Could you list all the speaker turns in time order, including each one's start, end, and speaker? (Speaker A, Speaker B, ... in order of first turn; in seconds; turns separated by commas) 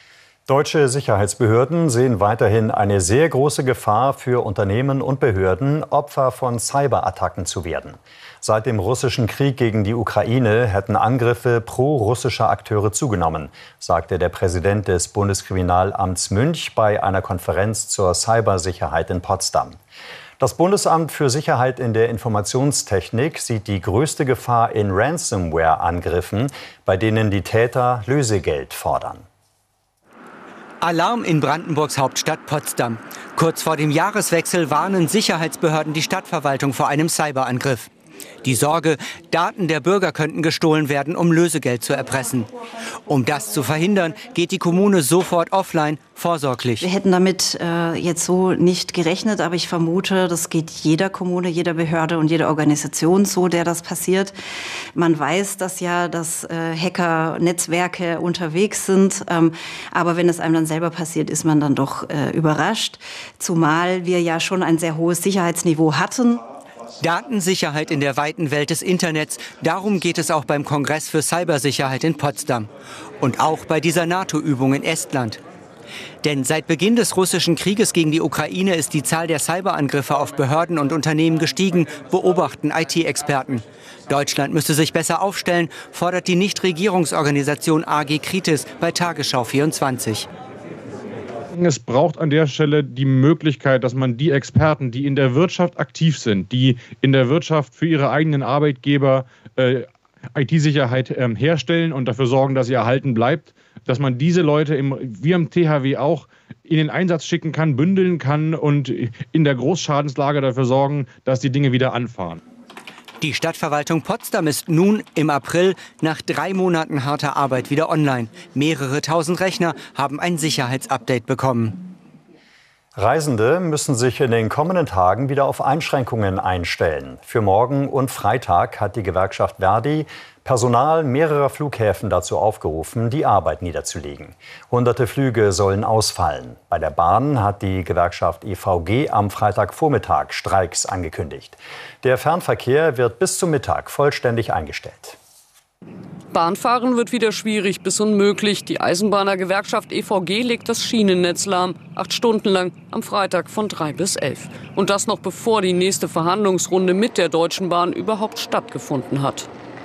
Speaker A: 0.5-19.8, Speaker A: 20.4-29.2, Speaker B: 30.8-37.9, Speaker B: 38.4-42.5, Speaker B: 43.0-46.9, Speaker C: 46.8-54.4, Speaker C: 54.9-66.4, Speaker B: 67.0-72.7, Speaker B: 73.2-75.4, Speaker B: 76.2-90.3, Speaker D: 91.5-112.4, Speaker B: 113.2-121.8, Speaker A: 123.0-145.2, Speaker E: 146.3-159.5